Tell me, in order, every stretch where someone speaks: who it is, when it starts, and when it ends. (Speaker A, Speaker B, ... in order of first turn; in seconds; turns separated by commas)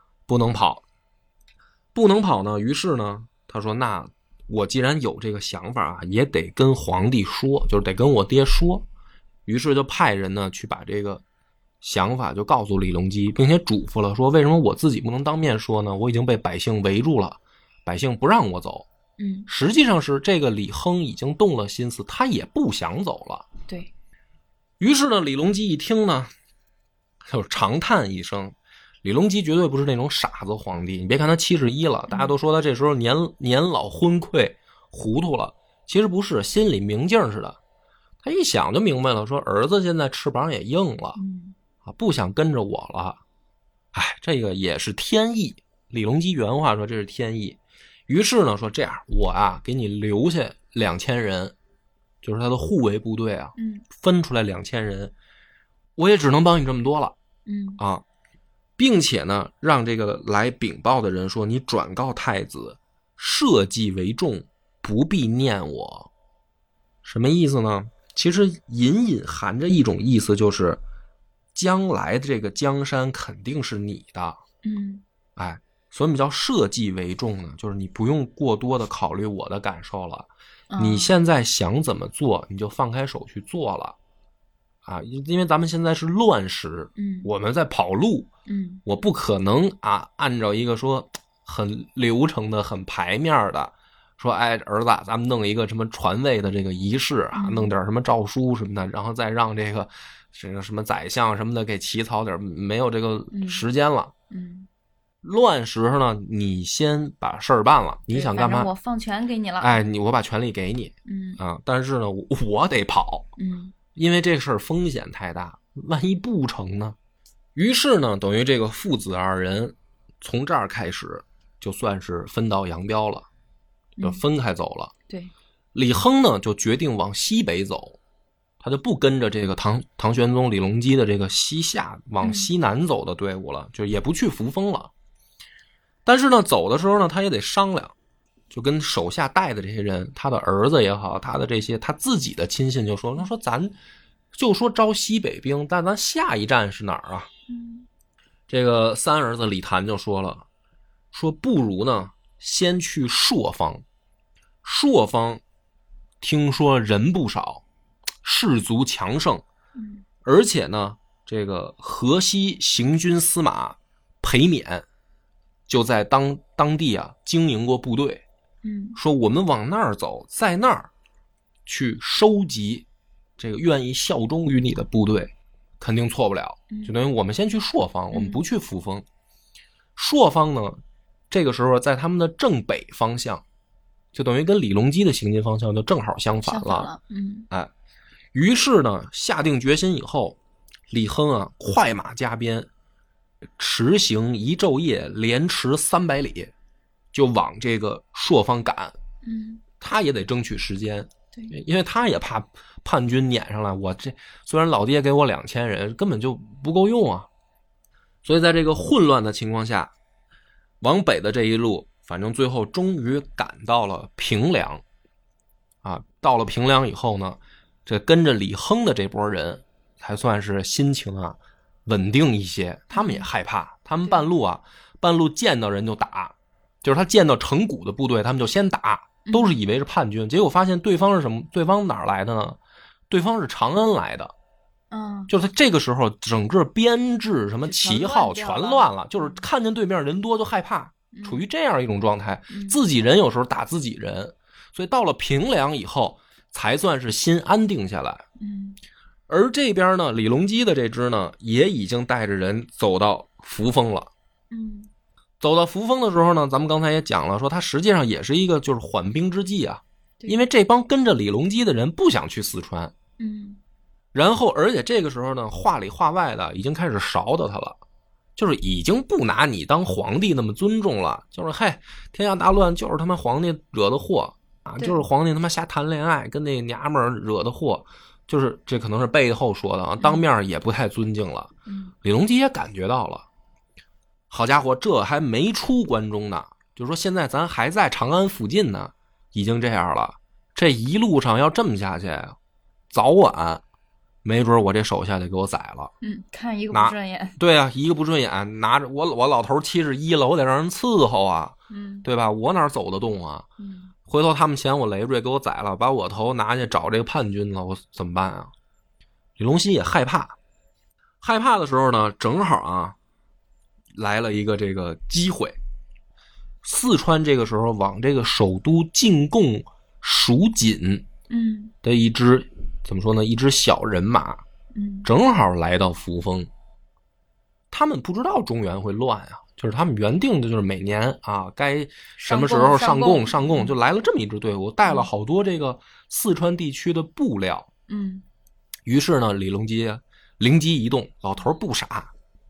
Speaker A: 0.3-0.8, Speaker A: 1.9-8.8, Speaker A: 9.4-11.2, Speaker A: 11.8-18.9, Speaker B: 19.2-19.5, Speaker A: 19.5-23.5, Speaker A: 24.8-26.3, Speaker A: 27.3-37.6, Speaker B: 32.1-32.3, Speaker A: 38.2-41.2, Speaker B: 41.1-41.5, Speaker A: 41.8-43.2, Speaker A: 43.9-51.5, Speaker A: 52.2-55.1, Speaker B: 53.5-53.8, Speaker A: 56.0-57.1, Speaker B: 57.5-57.8, Speaker A: 57.8-58.0, Speaker A: 58.8-66.1, Speaker A: 67.0-70.8, Speaker A: 71.5-74.4, Speaker B: 74.6-75.0, Speaker A: 75.4-84.0, Speaker B: 80.7-81.1, Speaker A: 84.8-88.3, Speaker B: 87.0-87.3, Speaker B: 88.5-88.8, Speaker A: 88.8-104.1, Speaker B: 97.3-97.7, Speaker B: 103.3-103.6, Speaker B: 104.3-104.7, Speaker A: 105.2-108.7, Speaker B: 108.1-109.8, Speaker A: 109.6-113.3, Speaker B: 111.0-111.4, Speaker B: 113.4-113.7, Speaker A: 113.9-117.0, Speaker A: 117.5-123.2, Speaker B: 124.0-124.2, Speaker A: 124.0-124.9, Speaker A: 125.7-128.0, Speaker A: 128.6-134.9, Speaker B: 132.2-132.5, Speaker A: 136.1-137.9, Speaker A: 138.5-143.7, Speaker A: 144.3-147.3, Speaker B: 147.5-147.9, Speaker A: 148.5-150.4, Speaker A: 151.1-153.8, Speaker A: 154.6-155.4, Speaker A: 156.2-157.6, Speaker A: 158.2-159.4, Speaker B: 159.8-160.0, Speaker A: 160.2-164.8, Speaker A: 165.7-168.2, Speaker B: 168.6-169.0, Speaker A: 168.9-170.9, Speaker A: 171.7-172.8, Speaker A: 173.4-179.0, Speaker B: 178.1-178.4, Speaker A: 179.9-183.4, Speaker A: 184.1-186.9, Speaker B: 186.4-187.5, Speaker A: 188.3-190.4, Speaker A: 190.9-192.7, Speaker A: 193.6-196.5, Speaker A: 197.1-198.9, Speaker B: 199.2-199.6, Speaker A: 199.8-207.3, Speaker A: 208.2-209.9, Speaker A: 210.8-214.8, Speaker A: 215.8-232.6, Speaker B: 222.9-223.3, Speaker B: 229.2-229.6, Speaker A: 233.1-234.3, Speaker B: 234.9-235.3, Speaker A: 235.3-248.2, Speaker B: 237.6-239.4, Speaker B: 241.1-241.4, Speaker B: 242.5-242.8, Speaker B: 248.4-248.8, Speaker A: 249.3-254.1, Speaker B: 254.5-254.9, Speaker A: 255.4-262.9, Speaker B: 263.2-263.6, Speaker A: 264.1-267.8, Speaker A: 268.4-281.5, Speaker B: 281.6-281.9, Speaker A: 282.0-283.2, Speaker A: 284.3-292.4, Speaker A: 292.9-293.6, Speaker A: 294.2-295.9, Speaker B: 296.0-297.4, Speaker A: 296.7-303.5, Speaker B: 301.7-302.1, Speaker B: 303.6-303.9, Speaker A: 304.1-308.5, Speaker A: 309.4-310.4, Speaker A: 311.2-312.9, Speaker A: 313.9-315.6, Speaker A: 316.6-321.1, Speaker B: 321.3-321.7, Speaker A: 321.8-324.4, Speaker B: 324.7-325.1, Speaker A: 325.0-326.5, Speaker A: 327.7-337.7, Speaker B: 332.2-333.8, Speaker B: 337.9-338.2, Speaker A: 338.9-342.1